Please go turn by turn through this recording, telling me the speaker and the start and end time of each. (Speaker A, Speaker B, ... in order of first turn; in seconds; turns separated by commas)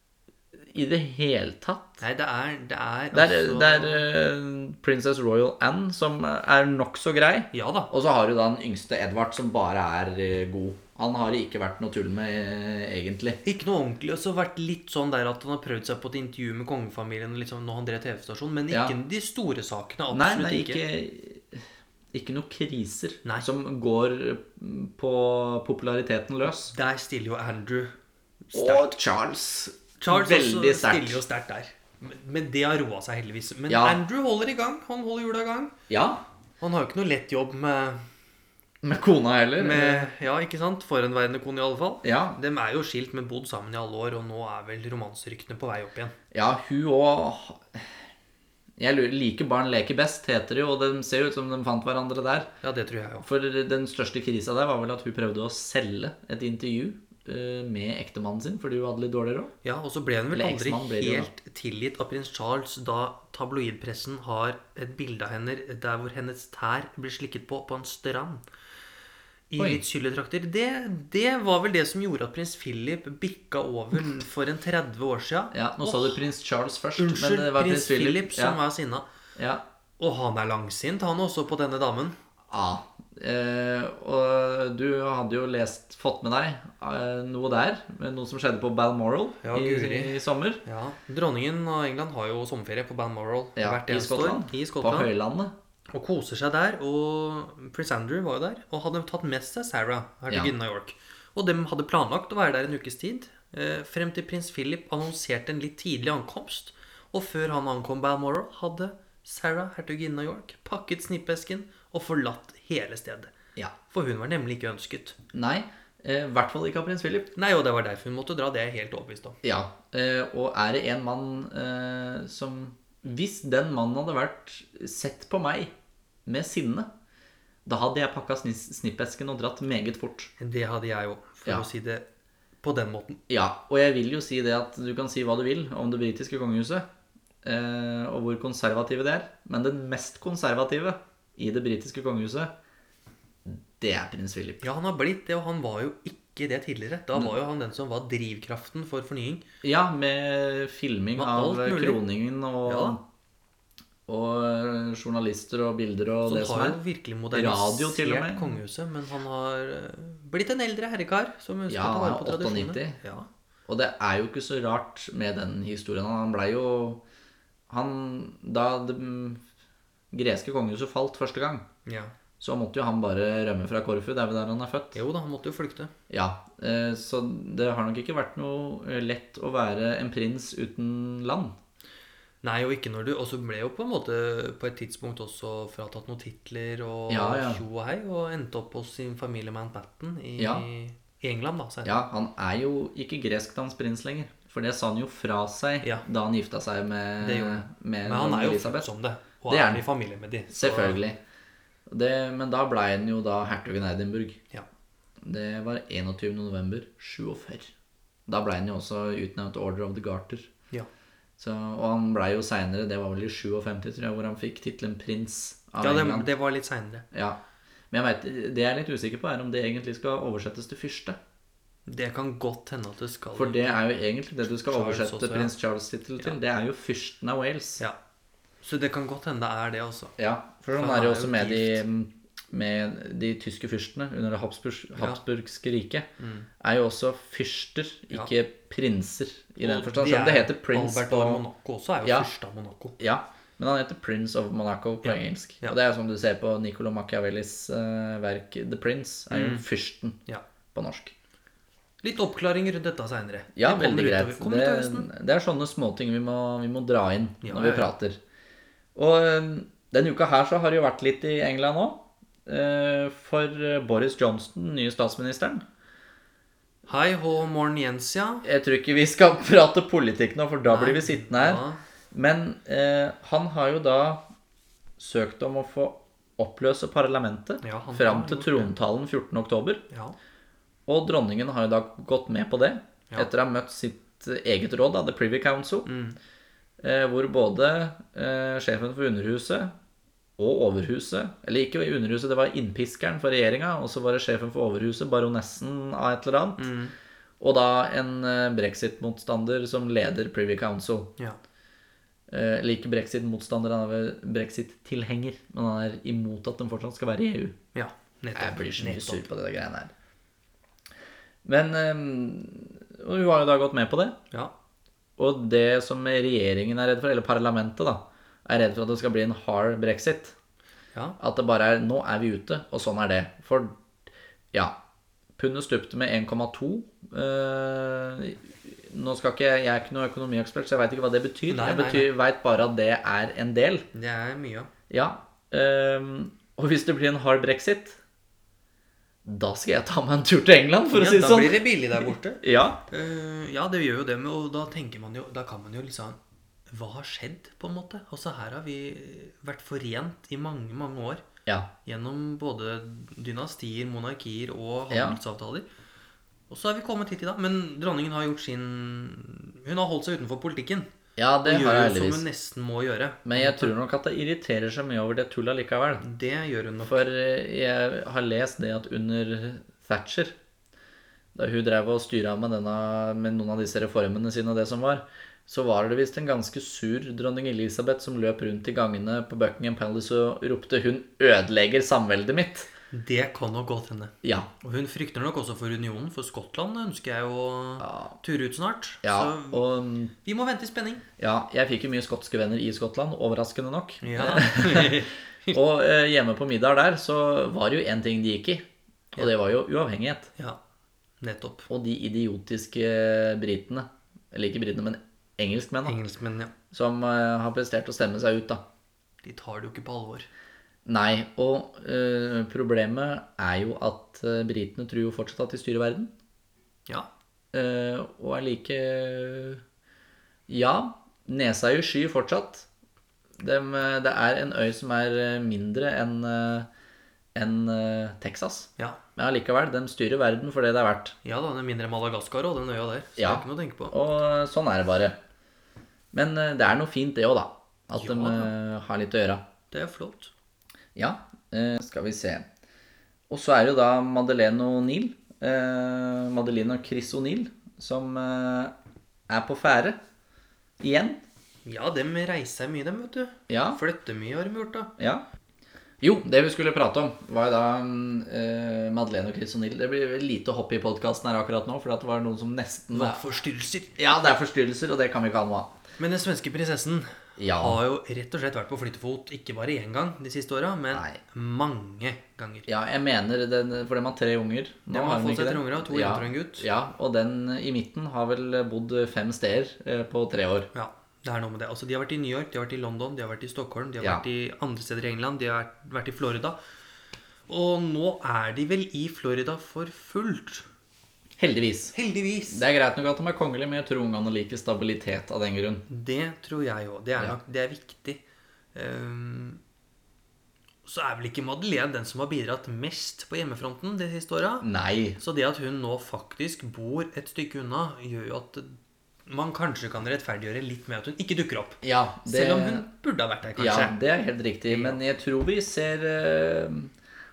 Speaker A: 0.7-2.0, Speaker B: 2.0-4.1, Speaker A: 3.1-13.4, Speaker B: 7.5-7.9, Speaker B: 13.4-20.8, Speaker A: 20.1-26.7, Speaker B: 26.7-27.9, Speaker B: 28.5-28.9, Speaker A: 28.5-31.2, Speaker B: 30.0-35.8, Speaker A: 33.7-34.0, Speaker A: 35.9-36.2, Speaker B: 36.6-38.0, Speaker A: 38.8-40.1, Speaker B: 39.6-46.1, Speaker A: 42.0-42.4, Speaker A: 46.3-47.9, Speaker A: 48.8-52.5, Speaker B: 52.6-53.3, Speaker A: 53.2-59.5, Speaker B: 59.6-68.4, Speaker A: 60.3-61.3, Speaker B: 69.5-76.2, Speaker A: 75.5-78.6, Speaker B: 77.0-79.1, Speaker A: 79.4-79.6, Speaker B: 80.0-82.2, Speaker A: 82.5-90.6, Speaker B: 89.4-95.1, Speaker A: 93.6-95.5, Speaker B: 95.9-113.3, Speaker B: 113.9-115.2, Speaker A: 115.3-117.3, Speaker B: 117.4-119.4, Speaker A: 119.4-125.7, Speaker A: 126.3-126.9, Speaker A: 127.7-130.3, Speaker B: 130.4-132.1, Speaker B: 132.6-133.2, Speaker A: 133.3-136.8, Speaker A: 137.4-142.5, Speaker A: 143.5-144.7, Speaker B: 144.6-149.4, Speaker A: 149.6-153.0, Speaker B: 151.2-152.0, Speaker B: 152.7-153.0, Speaker A: 154.1-156.8, Speaker B: 156.3-163.3, Speaker A: 157.3-158.6, Speaker A: 161.7-163.0, Speaker A: 163.7-167.0, Speaker A: 167.7-169.4, Speaker A: 170.1-171.7, Speaker B: 171.9-172.1, Speaker A: 172.4-175.0, Speaker B: 174.9-175.9, Speaker A: 176.1-181.6, Speaker B: 182.4-191.9, Speaker A: 187.1-187.6, Speaker A: 190.4-190.7, Speaker A: 191.8-198.9, Speaker B: 197.2-201.0, Speaker A: 199.5-199.8, Speaker A: 200.5-201.2, Speaker A: 201.9-204.4, Speaker A: 205.2-207.7, Speaker A: 208.3-210.5, Speaker A: 211.4-216.3, Speaker B: 215.8-217.1, Speaker A: 217.1-217.4, Speaker A: 217.9-221.2, Speaker B: 221.9-223.8, Speaker A: 223.3-227.8, Speaker B: 224.4-225.5, Speaker B: 228.6-230.1, Speaker A: 230.2-236.1, Speaker B: 230.7-231.8, Speaker B: 236.2-236.5, Speaker A: 236.6-241.4, Speaker B: 239.6-243.0, Speaker A: 243.0-250.2, Speaker B: 245.0-245.8, Speaker B: 249.3-249.6, Speaker A: 250.7-251.1, Speaker B: 252.0-255.1, Speaker A: 253.6-258.2, Speaker B: 257.4-257.9, Speaker A: 258.9-265.6, Speaker B: 266.9-268.4, Speaker A: 268.4-274.2, Speaker B: 270.7-271.8, Speaker A: 275.0-279.8, Speaker B: 277.6-278.7, Speaker B: 279.9-280.2, Speaker A: 280.9-285.9, Speaker B: 285.9-286.2, Speaker A: 286.8-289.7, Speaker A: 290.4-296.7, Speaker B: 296.6-296.9, Speaker A: 297.4-301.1, Speaker A: 302.3-307.6, Speaker B: 307.7-309.3, Speaker A: 308.4-309.9, Speaker A: 311.4-314.2, Speaker A: 315.2-320.4, Speaker A: 321.2-323.8, Speaker A: 325.4-333.9, Speaker B: 331.5-332.1, Speaker B: 333.9-334.7, Speaker A: 334.9-338.0, Speaker A: 339.2-342.8, Speaker B: 340.9-346.2, Speaker B: 346.7-351.2, Speaker B: 351.9-355.7, Speaker A: 354.9-355.2, Speaker B: 356.5-360.9, Speaker A: 361.2-362.2, Speaker B: 361.4-363.7, Speaker A: 363.2-366.1, Speaker B: 366.0-367.0, Speaker A: 366.9-370.4, Speaker A: 371.4-382.7, Speaker B: 382.9-389.6, Speaker A: 384.2-384.5, Speaker A: 387.8-388.1, Speaker A: 389.0-390.1, Speaker B: 390.2-391.1, Speaker A: 391.2-400.3, Speaker B: 394.0-395.6, Speaker B: 401.2-401.7, Speaker A: 401.7-406.0, Speaker B: 405.9-406.5, Speaker A: 406.7-408.6, Speaker B: 409.2-410.3, Speaker A: 410.9-416.1, Speaker A: 417.5-419.6, Speaker A: 420.5-422.7, Speaker A: 423.4-426.7, Speaker A: 427.4-431.2, Speaker B: 431.2-433.9, Speaker A: 433.2-435.2, Speaker A: 436.1-439.4, Speaker B: 438.0-438.5, Speaker B: 439.7-440.3, Speaker A: 441.0-442.5, Speaker A: 443.3-448.7, Speaker A: 449.3-450.0, Speaker A: 450.8-451.2, Speaker B: 451.6-454.9, Speaker A: 453.5-453.8, Speaker A: 455.0-455.2, Speaker A: 456.0-463.2, Speaker B: 462.9-464.3, Speaker A: 464.0-465.7, Speaker B: 466.0-472.7, Speaker A: 467.4-467.8, Speaker A: 470.9-471.2, Speaker A: 472.7-480.7, Speaker B: 474.9-476.7, Speaker B: 480.7-486.6, Speaker B: 487.5-490.7, Speaker A: 491.4-491.9, Speaker B: 491.9-492.6, Speaker A: 492.5-495.9, Speaker B: 495.9-498.2, Speaker B: 498.7-499.6, Speaker B: 500.9-504.7, Speaker A: 504.6-505.2, Speaker B: 505.2-514.0, Speaker A: 511.8-512.9, Speaker A: 513.6-516.9, Speaker B: 514.7-515.0